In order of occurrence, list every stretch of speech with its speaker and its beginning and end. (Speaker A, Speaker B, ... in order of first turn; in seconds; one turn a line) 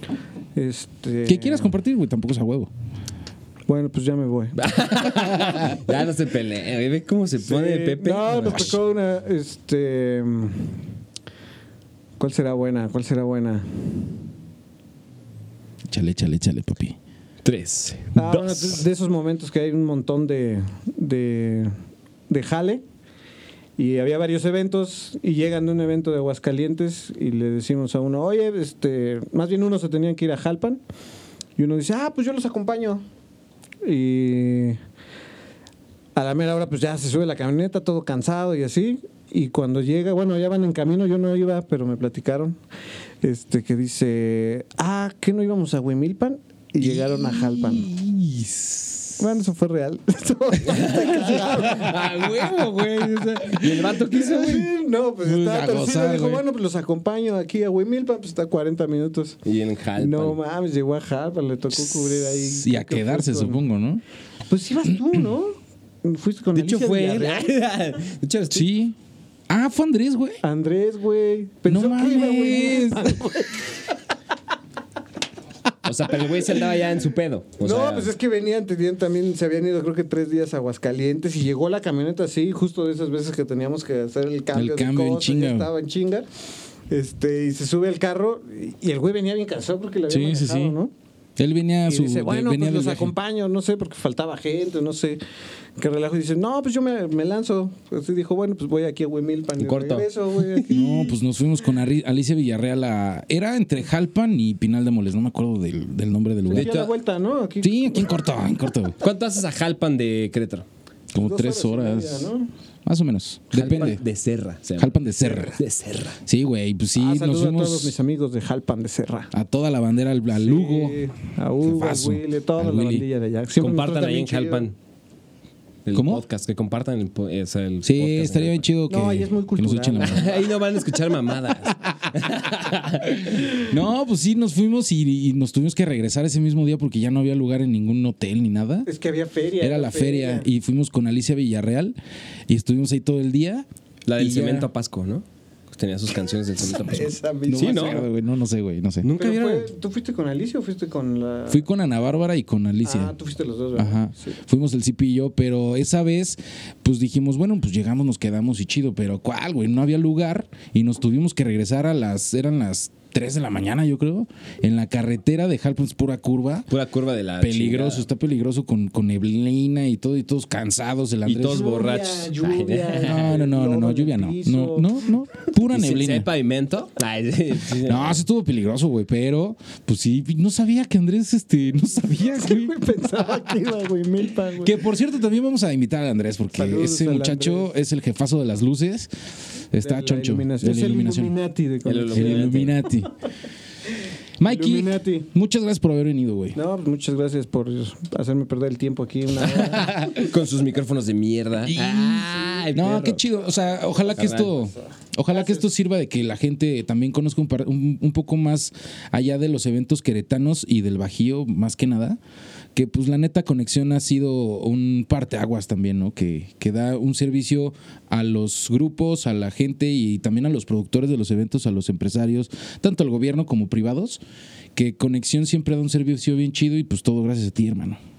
Speaker A: 0.5-1.7
Speaker B: 1.2-2.7
Speaker A: 3.7-4.6
Speaker C: 4.6-8.8
Speaker A: 7.4-10.8
Speaker B: 8.5-8.8
Speaker A: 12.2-14.1
Speaker B: 15.9-17.0
Speaker C: 17.4-18.8
Speaker A: 18.1-21.7
Speaker A: 22.3-22.8
Speaker A: 23.8-30.8
Speaker A: 31.6-33.0
Speaker A: 33.8-34.8
Speaker A: 36.1-42.5
Speaker A: 43.2-47.9
Speaker B: 46.8-49.1
Speaker A: 49.2-52.0
Speaker C: 50.6-54.7
Speaker B: 53.2-53.8
Speaker A: 54.0-59.4
Speaker B: 55.2-56.4
Speaker C: 59.4-60.4
Speaker A: 60.0-63.6
Speaker B: 61.8-64.0
Speaker A: 64.5-67.5
Speaker C: 66.5-68.7
Speaker B: 68.5-69.0
Speaker B: 69.5-70.4
Speaker A: 70.4-73.8
Speaker B: 71.7-73.2
Speaker C: 75.8-78.1
Speaker A: 77.6-86.2
Speaker B: 84.5-85.7
Speaker A: 86.9-90.9
Speaker B: 90.1-90.8
Speaker B: 91.4-93.1
Speaker A: 91.9-95.2
Speaker A: 95.8-101.1
Speaker C: 99.6-100.8
Speaker B: 100.7-106.8
Speaker A: 106.5-108.0
Speaker C: 106.5-106.9
Speaker B: 107.6-108.9
Speaker C: 109.0-110.7
Speaker B: 111.1-112.3
Speaker A: 111.2-112.5
Speaker B: 112.8-114.0
Speaker C: 113.5-116.2
Speaker B: 114.8-115.6
Speaker B: 116.2-118.0
Speaker A: 117.0-119.3
Speaker B: 119.3-121.0
Speaker A: 120.4-124.7
Speaker B: 121.6-123.0
Speaker C: 123.6-124.7
Speaker C: 125.8-128.7
Speaker B: 125.9-126.2
Speaker B: 127.8-130.3
Speaker A: 128.9-130.4
Speaker C: 130.0-133.5
Speaker B: 133.1-138.9
Speaker A: 138.8-140.5
Speaker B: 139.6-141.9
Speaker B: 142.5-143.7
Speaker C: 144.1-148.0
Speaker B: 144.2-144.7
Speaker A: 146.9-148.1
Speaker B: 147.5-149.1
Speaker C: 149.0-149.7
Speaker A: 149.1-151.7
Speaker B: 151.5-153.1
Speaker A: 152.8-154.4
Speaker B: 153.8-166.7
Speaker C: 166.7-168.1
Speaker B: 167.4-171.7
Speaker C: 171.2-173.4
Speaker A: 171.4-175.1
Speaker B: 173.0-176.3
Speaker C: 175.7-178.2
Speaker B: 177.8-182.9
Speaker A: 182.3-184.8
Speaker B: 184.6-189.1
Speaker A: 186.5-187.7
Speaker B: 189.7-191.3
Speaker A: 189.8-192.7
Speaker C: 191.8-192.8
Speaker B: 192.1-193.1
Speaker A: 194.0-195.3
Speaker B: 194.4-196.6
Speaker A: 196.5-200.0
Speaker C: 199.4-203.2
Speaker B: 199.9-200.3
Speaker B: 201.6-212.2
Speaker C: 204.1-204.5
Speaker A: 204.3-205.7
Speaker B: 212.7-224.2
Speaker B: 224.7-228.0